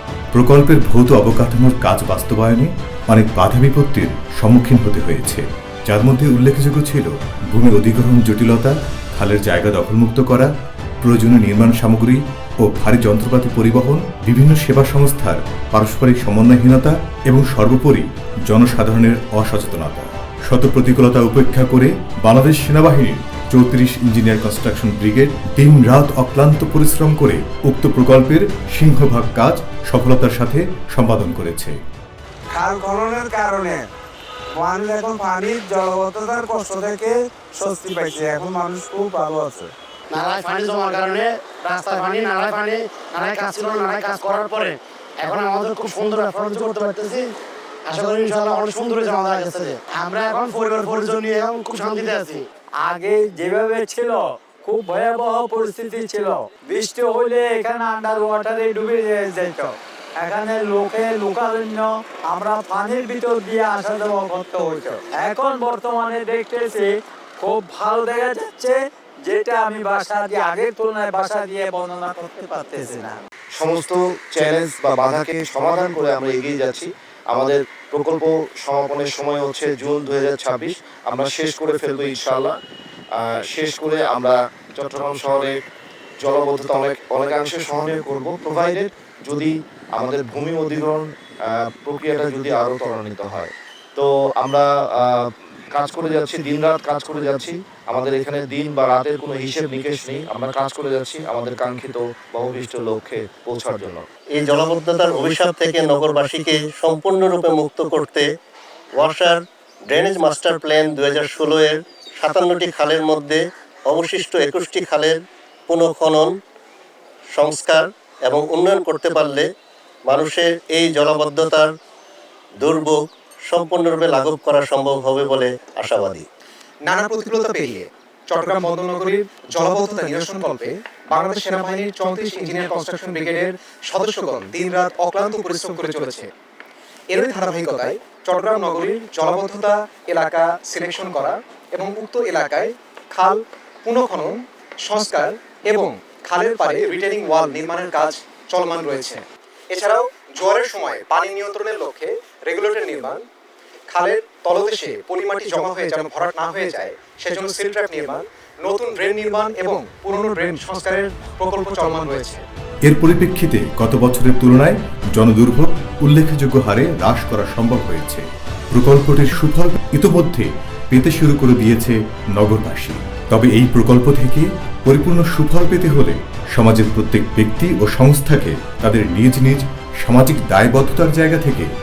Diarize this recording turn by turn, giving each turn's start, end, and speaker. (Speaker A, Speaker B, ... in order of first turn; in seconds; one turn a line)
Speaker A: 0.3-31.8
Speaker B: 32.5-33.9
Speaker B: 34.5-39.7
Speaker C: 40.1-47.2
Speaker C: 47.9-52.5
Speaker D: 52.8-73.2
Speaker E: 73.6-82.5
Speaker E: 83.2-85.6
Speaker E: 86.2-104.0
Speaker F: 104.4-108.2
Speaker F: 109.0-116.3
Speaker F: 117.3-119.5
Speaker F: 120.1-121.7
Speaker F: 122.6-126.3
Speaker G: 126.9-136.3
Speaker G: 137.1-153.2
Speaker G: 153.9-162.4
Speaker A: 162.9-181.7